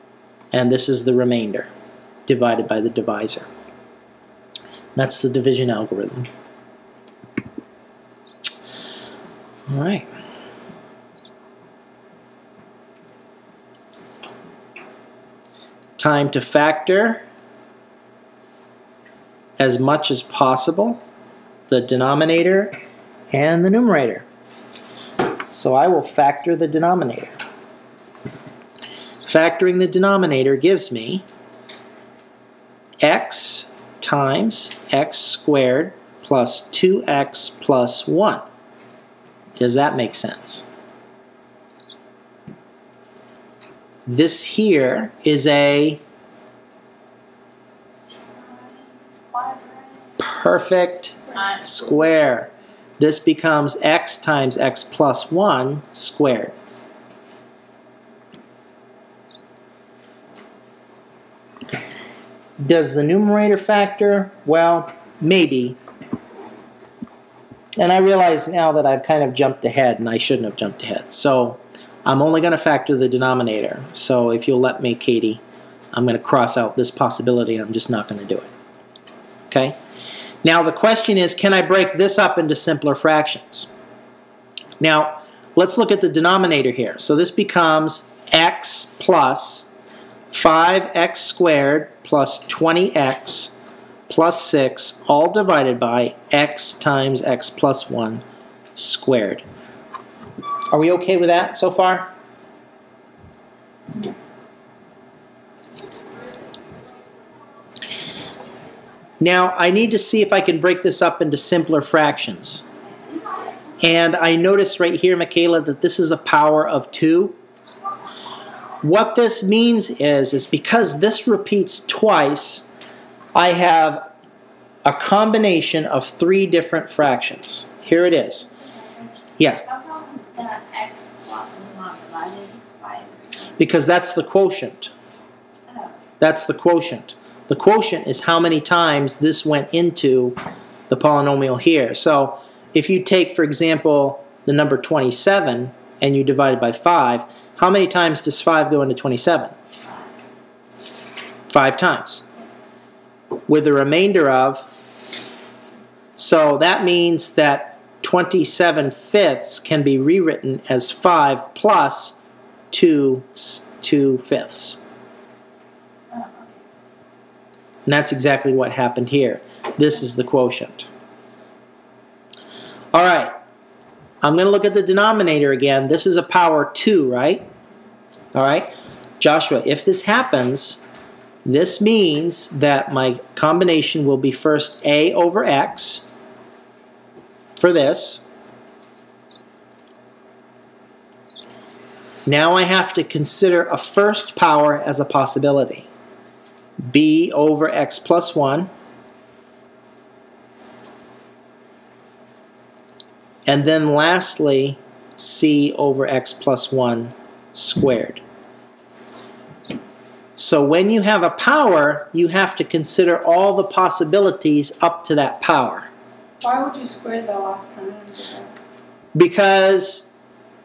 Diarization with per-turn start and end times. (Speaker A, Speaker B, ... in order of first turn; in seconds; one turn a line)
Speaker A: 0.5-1.7
Speaker A: 2.3-3.5
Speaker A: 5.0-6.3
Speaker A: 9.7-10.1
Speaker A: 16.0-17.2
Speaker A: 19.6-21.0
Speaker A: 21.7-22.8
Speaker A: 23.3-24.2
Speaker A: 25.5-27.4
Speaker A: 29.2-31.2
Speaker A: 33.0-38.4
Speaker A: 39.6-40.6
Speaker A: 44.1-46.0
Speaker B: 48.3-50.1
Speaker A: 50.2-56.5
Speaker B: 51.3-51.9
Speaker A: 62.6-65.8
Speaker A: 67.8-75.4
Speaker A: 75.9-78.5
Speaker A: 79.5-79.8
Speaker A: 80.4-83.7
Speaker A: 84.8-89.7
Speaker A: 90.3-93.5
Speaker A: 94.1-98.2
Speaker A: 98.8-99.4
Speaker A: 100.7-102.1
Speaker A: 109.2-112.7
Speaker A: 113.8-117.3
Speaker A: 118.8-122.7
Speaker A: 123.3-124.0
Speaker A: 124.8-128.5
Speaker B: 127.9-133.6
Speaker A: 133.6-134.9
Speaker B: 135.7-135.9
Speaker A: 136.2-140.4
Speaker A: 140.9-149.5
Speaker A: 151.5-152.2
Speaker A: 153.5-154.7
Speaker A: 156.2-162.2
Speaker A: 162.7-164.8
Speaker B: 166.1-166.6
Speaker A: 167.9-170.9
Speaker A: 172.9-173.3
Speaker A: 174.2-177.5
Speaker A: 178.3-180.8
Speaker A: 181.4-186.1
Speaker A: 187.6-188.2
Speaker A: 192.3-195.9
Speaker A: 196.8-198.7
Speaker A: 203.5-208.2
Speaker A: 210.4-215.9
Speaker C: 216.4-218.5
Speaker A: 219.2-220.1